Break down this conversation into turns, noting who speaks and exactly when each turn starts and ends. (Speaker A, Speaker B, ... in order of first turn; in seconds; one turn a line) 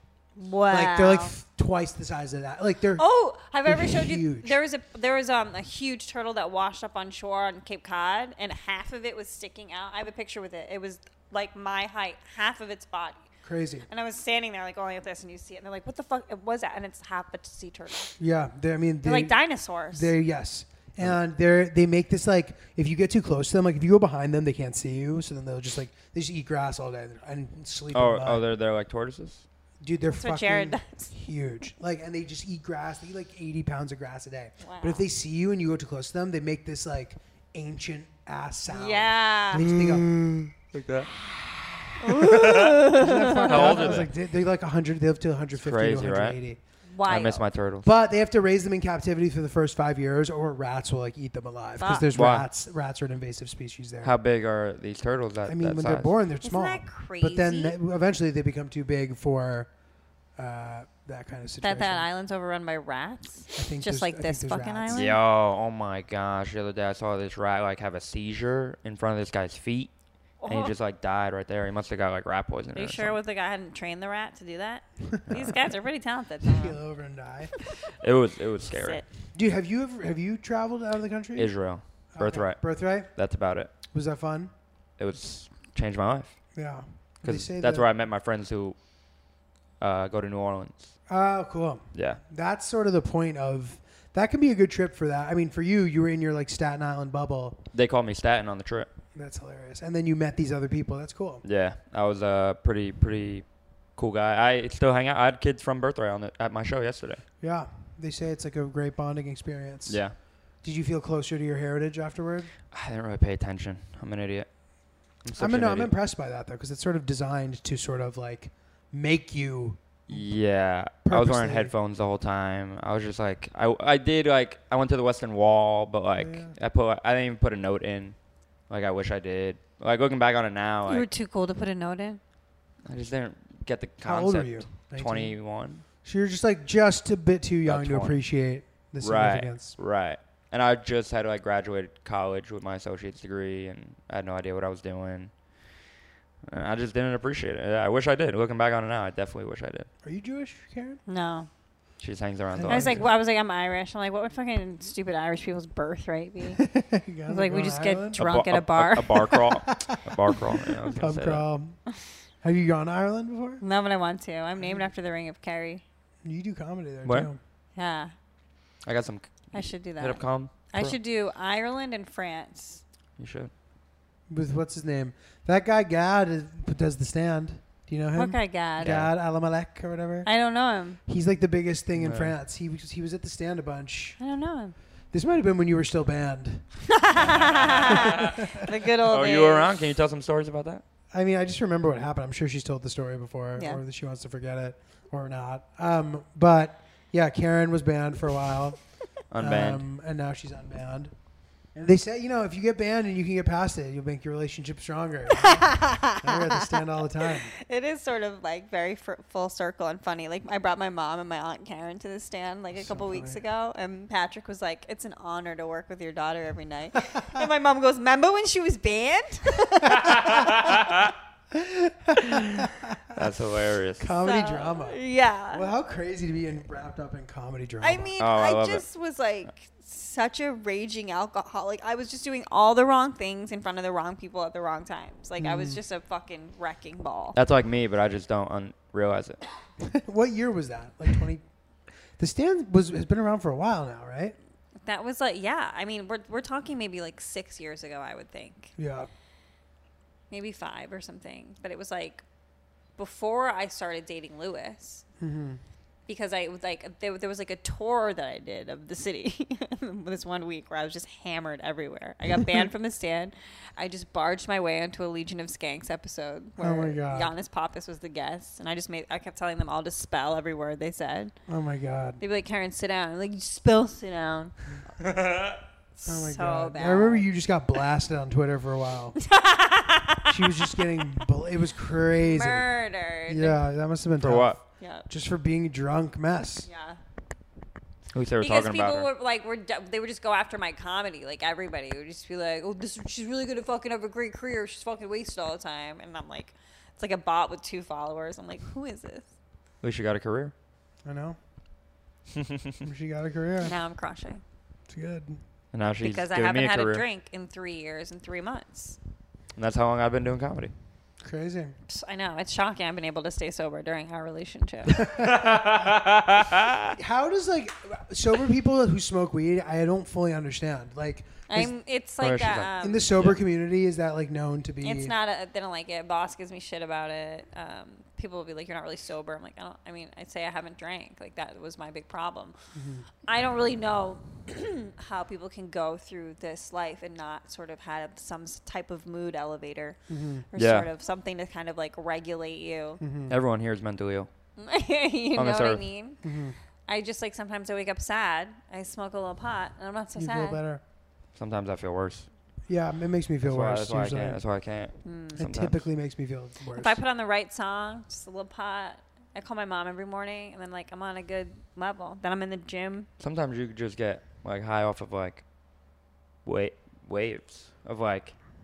Speaker A: 0.4-1.3
Speaker B: 0.7-3.0
Speaker A: 3.0-13.2
Speaker B: 3.6-4.6
Speaker B: 13.4-13.9
Speaker A: 13.9-18.1
Speaker B: 18.2-28.4
Speaker A: 19.0-20.1
Speaker C: 27.9-29.4
Speaker B: 29.8-40.2
Speaker A: 30.1-31.1
Speaker A: 34.6-35.0
Speaker A: 38.7-39.6
Speaker C: 39.5-44.1
Speaker A: 42.0-43.9
Speaker B: 42.8-46.6
Speaker C: 45.6-46.4
Speaker A: 46.9-47.5
Speaker C: 47.1-47.9
Speaker B: 47.8-54.1
Speaker A: 51.8-52.1
Speaker C: 52.1-52.5
Speaker C: 54.0-56.1
Speaker B: 55.5-59.7
Speaker A: 56.4-57.8
Speaker B: 60.4-62.0
Speaker A: 61.6-65.1
Speaker B: 63.5-65.2
Speaker C: 64.9-69.9
Speaker A: 70.4-70.7
Speaker C: 70.4-73.2
Speaker A: 72.8-76.8
Speaker C: 75.3-75.6
Speaker B: 76.5-77.5
Speaker C: 78.0-79.0
Speaker A: 78.7-79.1
Speaker B: 79.3-81.5
Speaker C: 81.4-83.7
Speaker B: 82.2-83.1
Speaker B: 83.9-84.5
Speaker C: 85.0-86.3
Speaker B: 86.6-87.9
Speaker C: 87.2-88.8
Speaker C: 89.8-90.9
Speaker B: 91.1-97.6
Speaker C: 91.9-92.2
Speaker C: 97.7-98.9
Speaker B: 99.2-101.4
Speaker C: 101.4-107.2
Speaker B: 107.4-110.0
Speaker C: 109.9-110.2
Speaker B: 110.6-112.5
Speaker C: 112.7-114.5
Speaker C: 115.2-115.9
Speaker B: 115.4-120.3
Speaker C: 120.1-128.2
Speaker B: 121.0-121.7
Speaker B: 126.2-126.5
Speaker C: 128.7-131.1
Speaker A: 130.9-132.2
Speaker C: 132.9-135.8
Speaker B: 134.0-135.4
Speaker B: 136.0-139.8
Speaker C: 137.7-138.2
Speaker C: 139.0-145.3
Speaker C: 146.5-149.9
Speaker B: 150.0-151.0
Speaker A: 151.1-151.5
Speaker C: 152.0-153.1
Speaker B: 152.5-153.1
Speaker A: 152.7-156.6
Speaker B: 156.6-158.2
Speaker A: 157.3-159.5
Speaker C: 158.2-161.4
Speaker B: 159.5-161.8
Speaker B: 162.4-163.6
Speaker A: 163.6-165.8
Speaker B: 164.6-164.9
Speaker B: 166.2-167.4
Speaker A: 167.8-168.1
Speaker C: 168.8-171.0
Speaker A: 169.5-172.8
Speaker C: 173.2-173.5
Speaker B: 174.3-180.3
Speaker A: 178.2-178.9
Speaker C: 178.8-179.1
Speaker A: 180.3-181.0
Speaker B: 181.1-184.2
Speaker C: 182.0-182.3
Speaker A: 184.2-184.8
Speaker B: 185.1-186.8
Speaker A: 186.9-189.7
Speaker C: 187.3-188.3
Speaker B: 187.9-188.7
Speaker C: 189.1-190.8
Speaker B: 191.1-201.1
Speaker C: 199.3-199.8
Speaker B: 201.7-207.6
Speaker A: 205.3-206.7
Speaker A: 207.6-220.5
Speaker B: 212.8-213.4
Speaker C: 219.9-221.0
Speaker B: 221.5-223.3
Speaker C: 223.1-224.1
Speaker B: 224.0-228.1
Speaker A: 224.2-225.7
Speaker A: 227.8-237.4
Speaker C: 228.2-228.8
Speaker B: 235.4-235.8
Speaker C: 237.4-239.4
Speaker B: 239.8-241.4
Speaker B: 242.2-244.4
Speaker A: 244.8-248.7
Speaker B: 248.8-249.1
Speaker A: 250.3-252.2
Speaker A: 253.0-255.0
Speaker B: 255.2-255.6
Speaker A: 256.1-271.3
Speaker B: 266.6-267.3
Speaker B: 271.5-272.2
Speaker A: 272.2-274.5
Speaker C: 275.0-275.6
Speaker A: 276.0-277.3
Speaker B: 276.1-279.2
Speaker A: 279.2-280.5
Speaker B: 280.3-282.7
Speaker A: 282.2-283.6
Speaker B: 283.3-286.7
Speaker C: 284.2-284.6
Speaker A: 284.8-285.1
Speaker A: 286.6-287.0
Speaker C: 288.1-289.1
Speaker A: 288.4-299.3
Speaker C: 299.8-300.5
Speaker B: 301.1-301.4
Speaker C: 302.4-302.8
Speaker B: 302.8-303.7
Speaker A: 303.6-304.4
Speaker B: 304.9-305.4
Speaker C: 305.7-307.0
Speaker A: 306.0-309.0
Speaker C: 309.6-310.7
Speaker B: 311.2-311.8
Speaker A: 311.9-315.0
Speaker B: 315.0-315.7
Speaker C: 315.1-317.0
Speaker B: 317.0-321.7
Speaker A: 321.5-323.1
Speaker C: 322.2-323.4
Speaker B: 322.8-325.1
Speaker A: 324.8-332.6
Speaker B: 332.7-333.1
Speaker A: 333.3-340.0
Speaker B: 340.1-340.5
Speaker A: 340.5-343.0
Speaker C: 340.6-340.9
Speaker B: 343.0-343.4
Speaker C: 343.3-344.3
Speaker A: 344.6-346.2
Speaker C: 345.4-345.8
Speaker B: 346.2-346.6
Speaker A: 346.9-350.6
Speaker B: 350.2-350.8
Speaker C: 351.4-352.3
Speaker B: 352.7-354.4
Speaker C: 353.4-355.8
Speaker A: 355.0-355.4
Speaker B: 355.4-357.0
Speaker A: 356.7-363.1
Speaker C: 363.2-365.4
Speaker C: 366.4-368.4